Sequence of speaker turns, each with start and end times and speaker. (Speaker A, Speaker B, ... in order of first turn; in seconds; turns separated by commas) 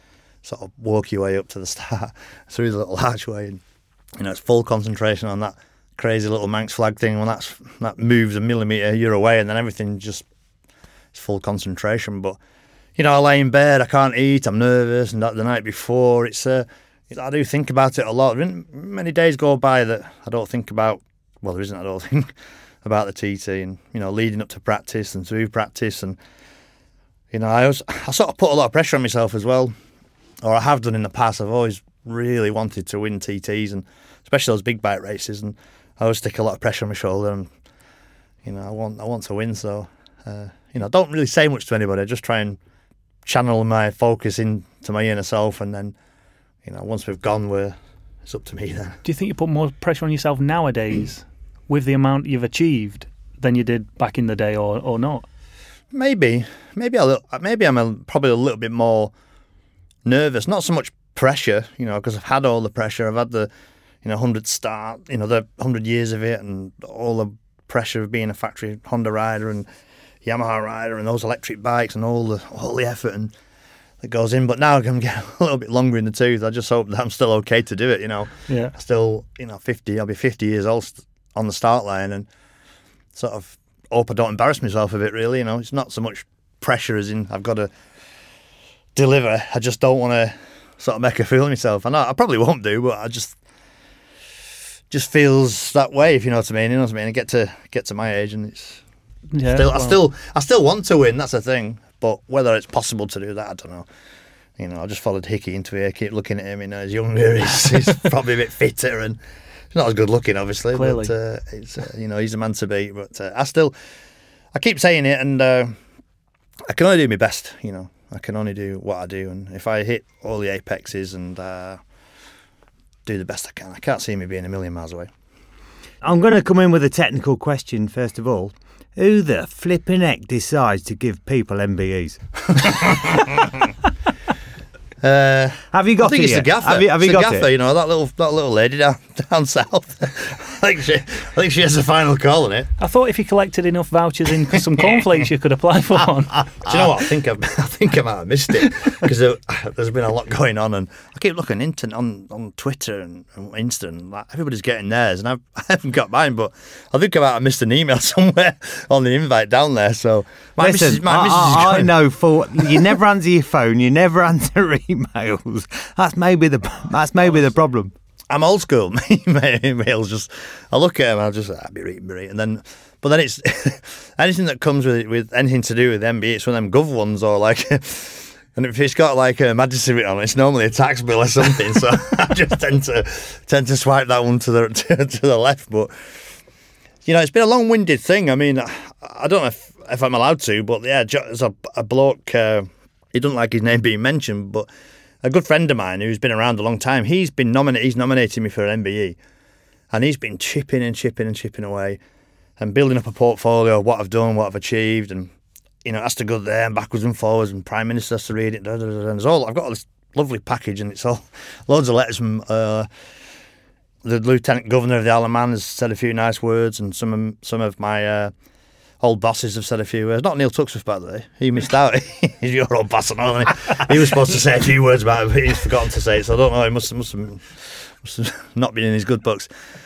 Speaker A: 0.4-3.6, Speaker A: 4.2-10.2, Speaker A: 11.1-12.4, Speaker A: 13.0-26.2, Speaker A: 27.3-29.7, Speaker A: 30.4-37.5, Speaker A: 38.4-42.6, Speaker A: 43.2-45.9, Speaker A: 46.6-49.0, Speaker B: 49.0-55.2, Speaker A: 55.9-59.1, Speaker A: 60.0-63.5, Speaker A: 64.0-69.7, Speaker A: 70.2-73.3, Speaker A: 74.0-82.3, Speaker B: 78.5-78.7, Speaker A: 83.1-87.7, Speaker A: 88.9-93.4, Speaker A: 94.9-98.8, Speaker B: 99.3-100.0, Speaker A: 99.4-103.9, Speaker A: 104.6-109.2, Speaker A: 109.7-113.7, Speaker B: 110.7-111.1, Speaker A: 114.5-115.8, Speaker A: 116.7-121.8, Speaker A: 123.0-125.1, Speaker C: 126.0-133.2, Speaker A: 132.5-133.3, Speaker A: 135.0-142.7, Speaker C: 135.7-137.5, Speaker B: 142.8-146.5, Speaker A: 146.6-161.9, Speaker C: 160.6-167.9, Speaker A: 162.5-163.0, Speaker A: 168.3-186.2, Speaker A: 187.0-194.7, Speaker A: 195.2-199.2, Speaker A: 199.9-202.0, Speaker A: 202.6-205.3, Speaker A: 205.8-212.9, Speaker A: 214.0-218.3, Speaker A: 219.0-229.5